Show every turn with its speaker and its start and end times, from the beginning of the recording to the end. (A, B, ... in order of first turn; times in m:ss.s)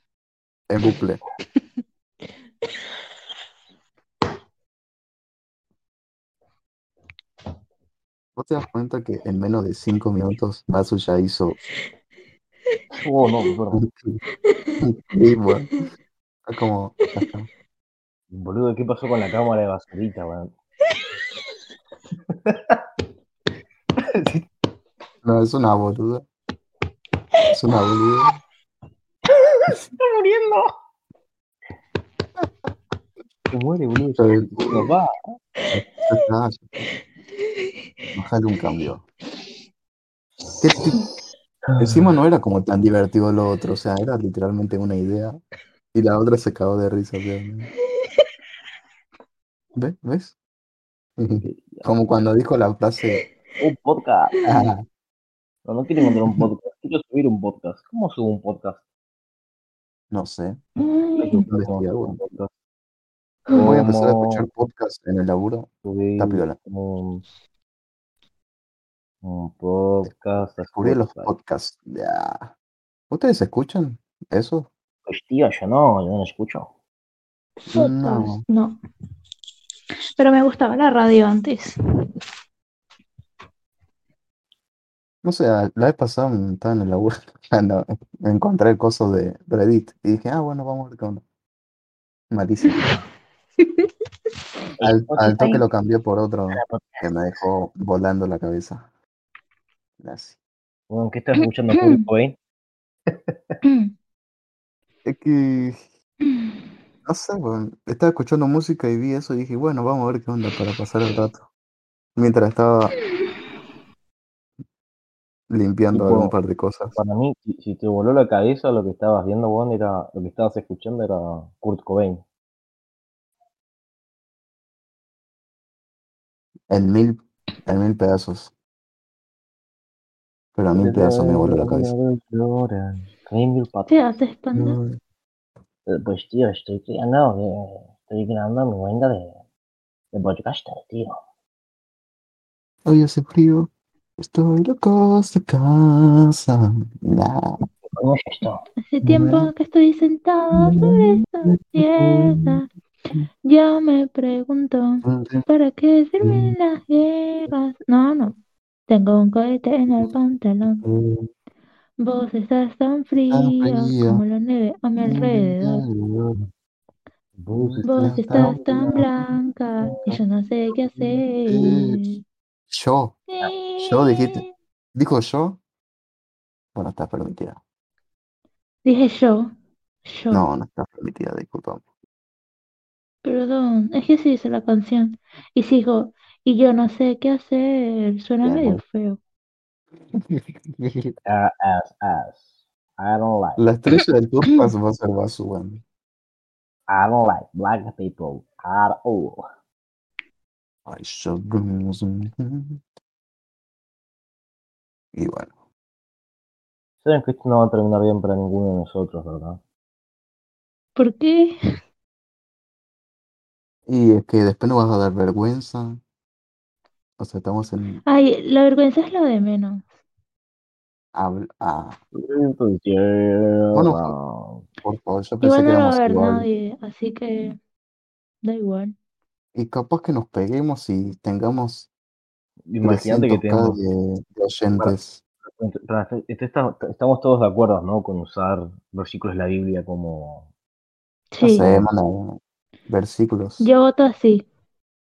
0:00.7-0:01.2 A
0:08.4-0:11.6 A
0:13.0-0:13.8 B
0:13.7-0:14.2 A
0:14.4-0:14.8 C
0:14.8-0:15.8 A
0:16.5-0:17.5 A
0:18.3-0:20.5 B
0:22.4-0:22.8 B
0:24.1-0:24.4 B
0:25.2-0:26.2 A
0:27.5-0:28.3 A
0:29.7-0:30.7 B
0:33.5-0:35.1 B
0:34.2-0:34.8 A
0:35.7-0:36.8 A
0:36.9-0:37.8 C
0:38.2-0:39.0 A
0:40.6-0:41.0 A
0:41.7-0:42.1 B
0:41.8-0:45.4 A
0:45.9-0:47.7 A
0:48.0-0:48.2 C
0:49.8-0:50.4 A
0:51.2-0:53.2 A
0:51.4-0:51.9 B
0:53.6-0:54.4 B
0:54.3-0:54.7 C
0:54.5-0:54.8 A
0:55.7-0:58.8 B
1:00.1-1:00.6 A
1:00.8-1:01.5 C
1:01.2-1:02.5 B
1:01.5-1:02.2 A
1:03.5-1:04.4 B
1:03.6-1:06.6 A
1:05.8-1:07.2 B
1:09.2-1:11.3 B
1:10.0-1:12.5 A
1:13.1-1:14.7 A
1:15.1-1:16.7 B
1:17.6-1:18.8 C
1:17.7-1:18.4 A
1:20.2-1:21.7 C
1:25.2-1:31.2 A
1:32.3-1:32.9 A
1:33.6-1:33.9 C
1:34.8-1:35.6 B
1:34.8-1:38.9 A
1:36.5-1:37.1 B
1:40.0-1:40.4 A
1:40.9-1:42.4 B
1:41.4-1:42.0 C
1:43.6-1:43.9 C
1:45.1-1:45.8 A
1:46.2-1:46.6 C
1:47.0-1:51.5 A
1:52.2-1:53.0 A
1:55.5-1:57.0 A
1:55.9-1:56.3 B
1:57.0-2:02.2 B
2:06.7-2:08.5 A
2:10.6-2:11.9 A
2:10.8-2:14.0 B
2:13.9-2:14.8 C
2:14.6-2:15.0 A
2:15.9-2:19.4 B
2:20.1-2:21.2 B
2:22.9-2:27.6 A
2:28.0-2:28.6 B
2:28.9-2:32.7 C
2:29.0-2:29.5 A
2:30.6-2:32.6 A
2:33.5-2:38.4 C
2:35.0-2:35.4 A
2:36.2-2:36.5 A
2:38.9-2:40.8 C
2:40.8-2:41.3 A
2:42.0-2:45.8 C
2:43.3-2:44.2 A
2:45.0-2:46.4 A
2:47.4-2:49.1 B
2:47.6-2:49.1 A
2:47.8-2:52.2 C
2:49.9-2:50.2 B
2:51.5-2:52.0 A
2:52.7-2:53.2 A
2:53.3-2:54.5 C
2:53.8-2:54.4 A
2:55.0-2:55.6 A
2:56.8-2:57.6 A
2:58.8-2:59.5 C
3:00.0-3:00.4 C
3:00.3-3:01.8 A
3:03.2-3:09.2 C
3:08.4-3:08.8 A
3:10.1-3:11.1 A
3:11.3-3:13.7 B
3:13.6-3:15.8 A
3:16.9-3:19.4 B
3:20.9-3:22.8 A
3:25.2-3:25.5 A
3:27.0-3:29.6 B
3:31.0-3:31.5 C
3:33.9-3:36.0 A
3:37.2-3:38.0 A
3:38.1-3:39.8 C
3:41.2-3:42.0 A
3:42.2-3:44.6 B
3:43.8-3:44.1 A
3:44.8-3:46.5 A
3:45.4-3:47.6 C
3:48.4-3:49.0 C
3:49.6-3:51.9 A
3:52.7-3:53.8 B
3:52.8-3:55.2 A
3:55.5-4:00.5 B
4:01.3-4:01.7 C
4:01.4-4:03.7 A
4:01.6-4:01.9 B
4:03.6-4:04.5 C